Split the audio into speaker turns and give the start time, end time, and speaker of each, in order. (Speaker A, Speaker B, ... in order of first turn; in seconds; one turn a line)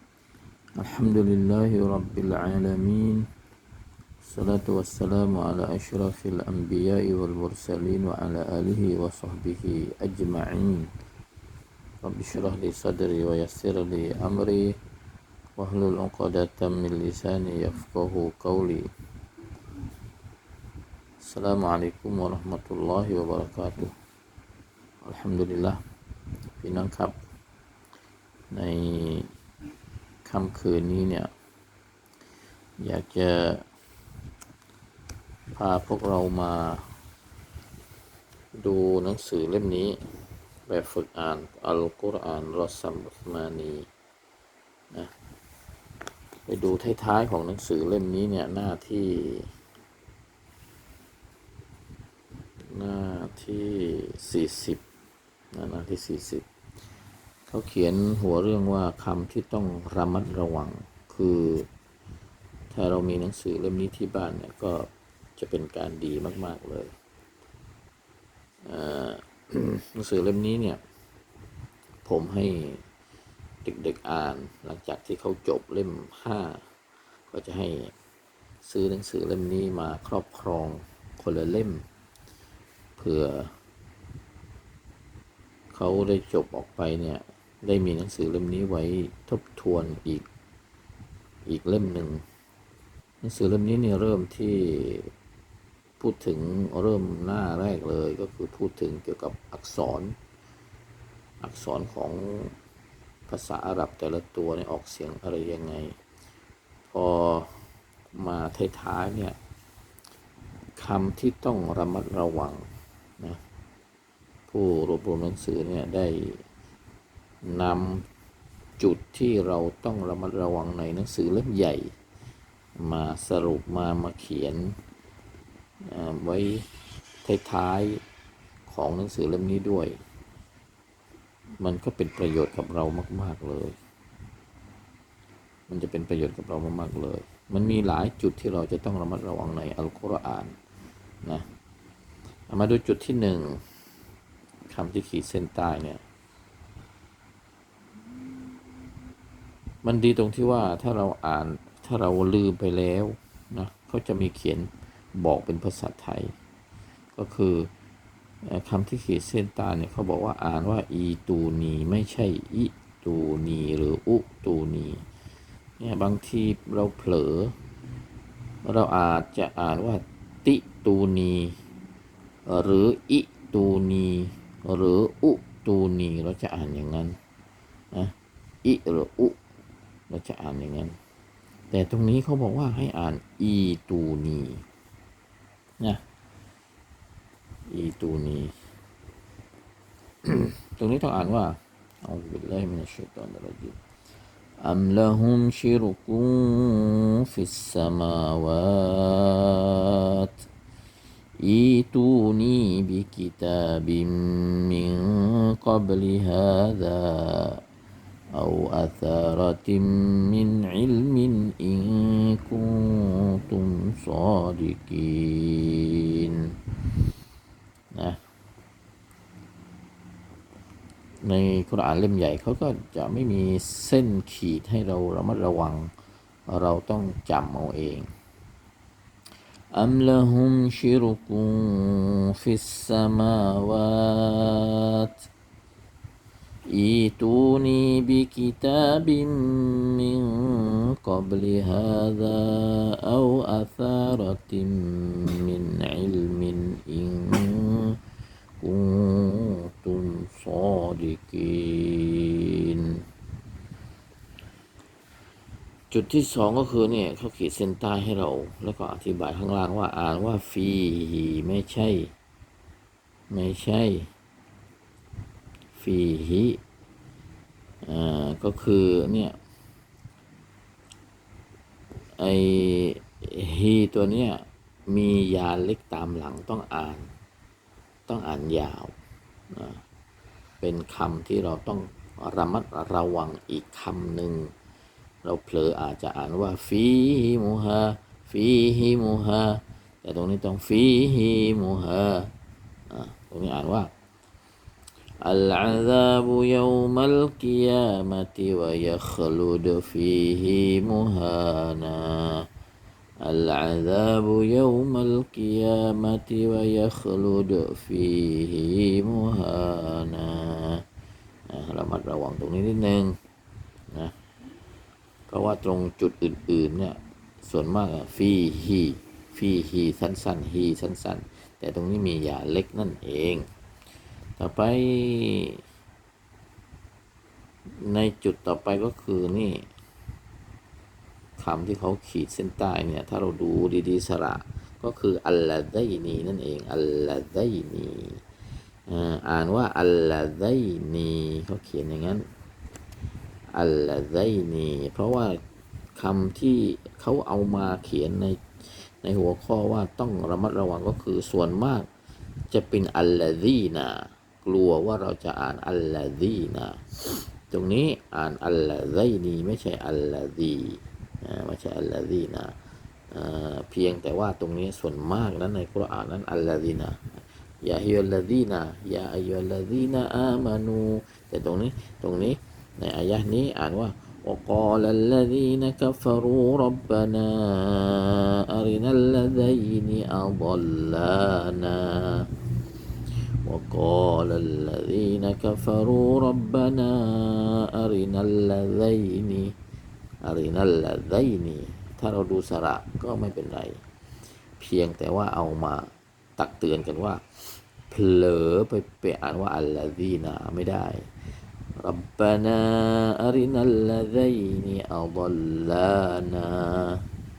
Speaker A: 0.8-3.3
Speaker A: 4.2-10.9
Speaker A: 12.0-14.7
Speaker A: 15.6-18.9
Speaker A: 21.2-23.9
Speaker A: 25.0-25.8
Speaker A: 26.6-27.2
Speaker A: 28.5-29.3
Speaker A: 30.2-31.3
Speaker A: 32.8-33.6
Speaker A: 35.5-36.8
Speaker A: 38.6-40.0
Speaker A: 40.7-43.9
Speaker A: 46.5-49.5
Speaker A: 52.7-54.8
Speaker A: 55.5-56.4
Speaker A: 57.5-61.7
Speaker A: 62.7-66.9
Speaker A: 68.7-70.8
Speaker A: 72.0-72.8
Speaker A: 73.6-76.6
Speaker A: 77.3-77.9
Speaker A: 78.6-81.8
Speaker A: 83.0-83.5
Speaker A: 85.7-90.3
Speaker A: 91.5-92.2
Speaker A: 93.2-95.1
Speaker A: 96.0-100.1
Speaker A: 101.4-102.5
Speaker A: 103.3-105.9
Speaker A: 106.9-107.6
Speaker A: 108.1-109.3
Speaker A: 110.8-112.6
Speaker A: 114.5-116.4
Speaker A: 117.4-118.0
Speaker A: 118.8-121.9
Speaker A: 122.8-124.7
Speaker A: 125.9-126.7
Speaker A: 127.2-128.0
Speaker A: 128.7-129.9
Speaker A: 131.6-133.8
Speaker A: 135.7-140.5
Speaker A: 142.5-143.6
Speaker A: 144.7-146.0
Speaker A: 149.8-156.3
Speaker A: 157.1-157.7
Speaker A: 158.4-165.0
Speaker A: 165.8-167.5
Speaker A: 168.6-171.5
Speaker A: 172.5-177.2
Speaker A: 177.9-179.4
Speaker A: 180.1-180.9
Speaker A: 181.7-184.6
Speaker A: 187.7-188.5
Speaker A: 190.2-193.8
Speaker A: 194.6-200.4
Speaker A: 201.4-207.6
Speaker A: 208.3-216.5
Speaker A: 217.9-218.2
Speaker A: 221.2-225.9
Speaker A: 226.5-228.1
Speaker A: 229.7-235.2
Speaker A: 236.7-248.0
Speaker A: 248.6-253.0
Speaker A: 255.9-262.1
Speaker A: 263.3-264.1
Speaker A: 265.8-266.6
Speaker A: 267.8-269.4
Speaker A: 272.2-277.1
Speaker A: 278.1-278.9
Speaker A: 279.5-279.8
Speaker A: 280.6-284.5
Speaker A: 285.2-292.3
Speaker A: 292.9-293.9
Speaker A: 295.2-302.5
Speaker A: 303.2-310.8
Speaker A: 311.5-313.1
Speaker A: 315.3-323.4
Speaker A: 324.4-325.6
Speaker A: 327.8-329.7
Speaker A: 331.4-338.2
Speaker A: 338.9-342.2
Speaker A: 343.5-345.4
Speaker A: 345.9-351.9
Speaker A: 352.5-362.6
Speaker A: 363.1-382.3
Speaker A: 383.4-389.5
Speaker A: 390.2-393.8
Speaker A: 394.6-401.1
Speaker A: 401.8-407.0